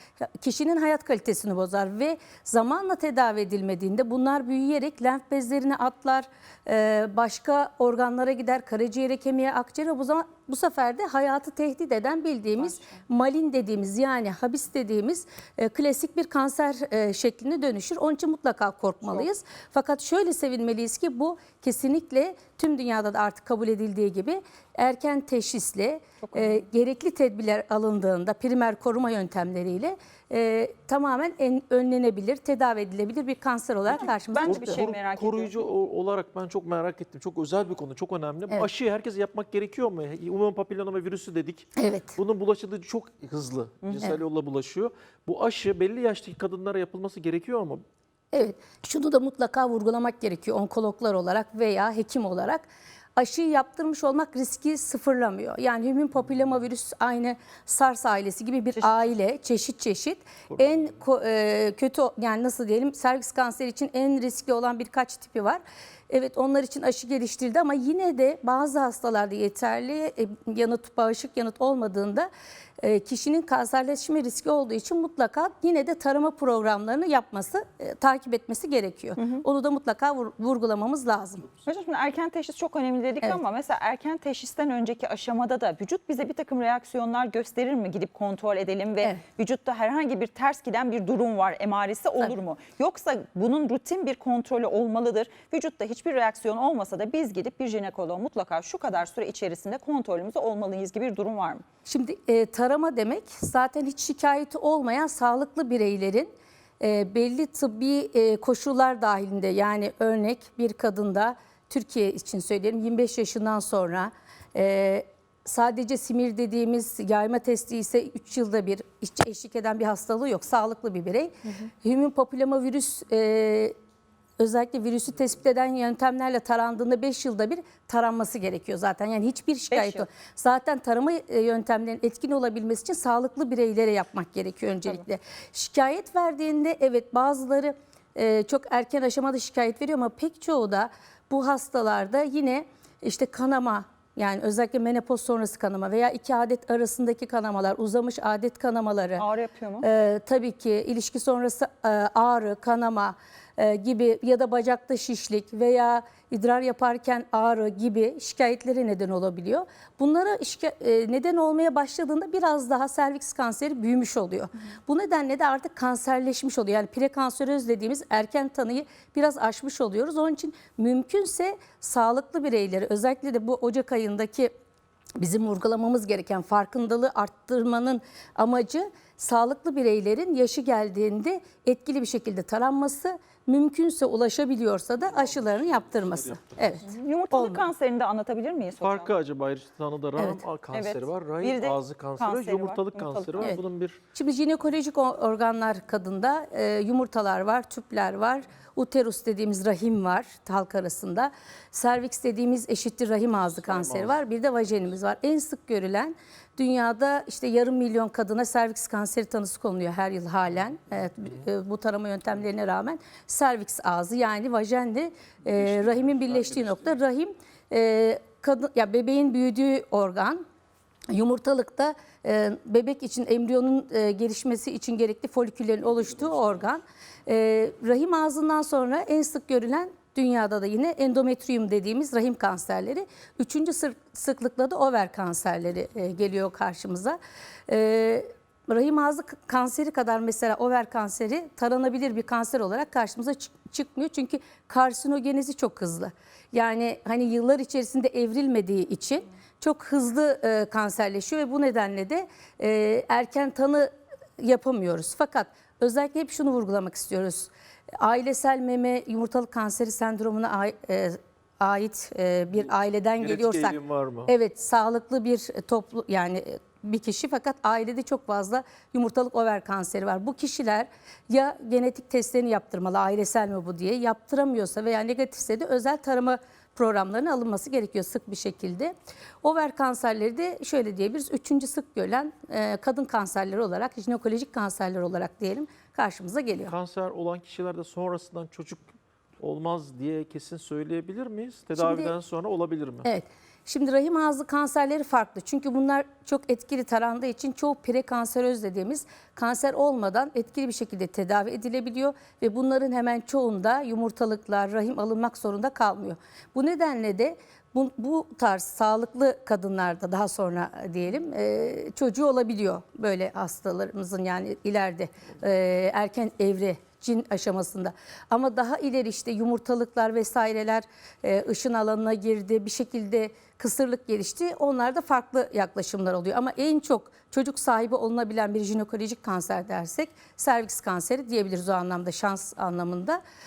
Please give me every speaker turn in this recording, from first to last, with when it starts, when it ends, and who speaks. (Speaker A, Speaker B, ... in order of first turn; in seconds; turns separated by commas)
Speaker A: 0.4-34.8, Speaker B: 12.6-13.0, Speaker B: 26.2-26.6, Speaker B: 33.9-35.5, Speaker C: 34.0-47.8, Speaker A: 41.8-42.1, Speaker A: 48.3-72.3, Speaker B: 58.8-59.1, Speaker C: 60.5-60.8, Speaker A: 72.8-81.5, Speaker B: 79.2-79.4, Speaker B: 81.6-101.6, Speaker A: 101.8-123.7, Speaker A: 124.4-149.2, Speaker B: 129.7-130.0, Speaker B: 149.2-149.9, Speaker A: 149.8-174.5, Speaker A: 175.2-187.6, Speaker C: 185.3-186.0, Speaker B: 186.8-189.1, Speaker C: 188.8-194.0, Speaker A: 190.2-190.4, Speaker B: 190.7-193.6, Speaker A: 194.1-220.4, Speaker C: 203.6-204.2, Speaker C: 215.8-216.8, Speaker A: 221.1-286.7, Speaker C: 263.2-264.3, Speaker C: 286.7-293.1, Speaker A: 291.7-292.1, Speaker A: 293.0-333.2